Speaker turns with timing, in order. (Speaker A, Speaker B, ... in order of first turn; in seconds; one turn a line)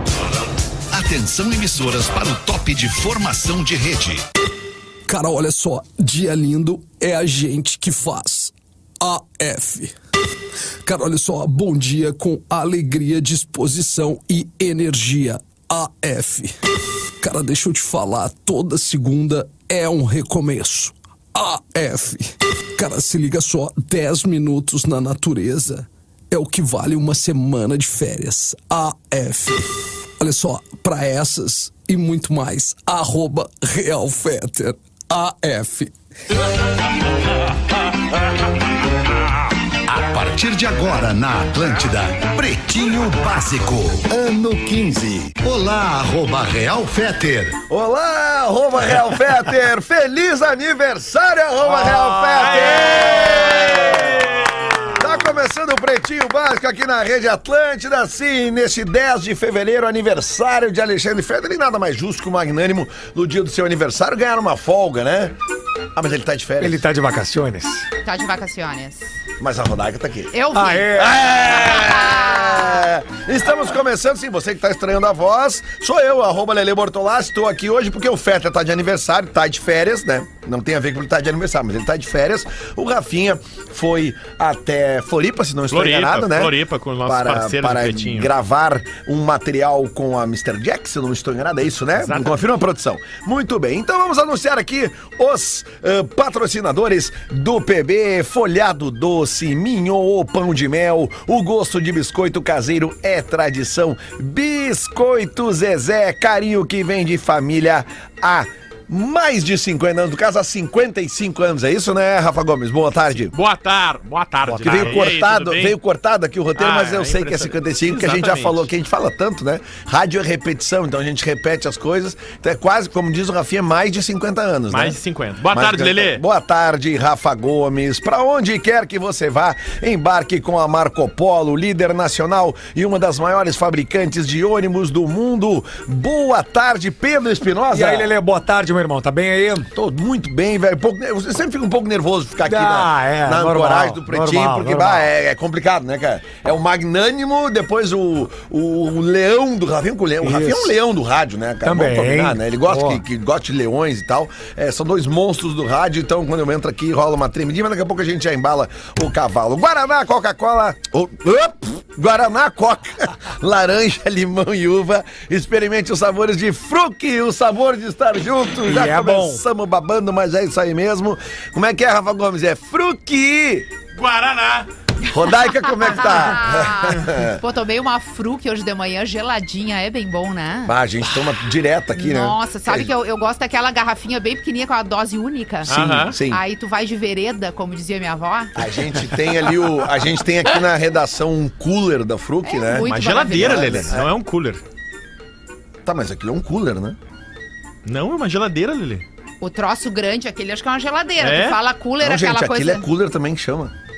Speaker A: 0.9-4.3
Speaker B: 5.1-9.9
Speaker B: 10.8-16.5
Speaker B: 17.2-35.9
Speaker A: 39.9-47.6
Speaker C: 47.7-54.2
Speaker D: 51.8-54.9
Speaker E: 52.3-55.0
Speaker C: 54.9-65.3
Speaker C: 65.9-66.8
Speaker D: 66.6-67.8
Speaker F: 68.0-69.1
Speaker C: 69.4-70.3
Speaker F: 70.3-72.9
Speaker D: 70.5-71.3
Speaker C: 70.9-113.3
Speaker E: 85.7-88.3
Speaker E: 92.0-92.4
Speaker E: 113.3-115.8
Speaker C: 114.5-125.0
Speaker E: 116.5-118.7
Speaker E: 124.7-126.2
Speaker C: 125.5-138.1
Speaker D: 137.7-139.7
Speaker C: 139.7-173.7
Speaker D: 142.4-145.1
Speaker D: 150.2-150.7
Speaker D: 151.6-153.0
Speaker D: 168.6-169.4
Speaker E: 173.9-174.7
Speaker C: 175.0-177.4
Speaker F: 175.8-180.7
Speaker C: 180.7-182.9
Speaker F: 181.9-188.6
Speaker E: 185.7-186.2
Speaker C: 185.7-186.4
Speaker C: 188.5-194.1
Speaker F: 192.4-193.9
Speaker E: 192.8-194.6
Speaker C: 195.8-197.0
Speaker E: 197.8-199.0
Speaker F: 199.4-202.9
Speaker E: 201.2-201.6
Speaker C: 202.0-203.7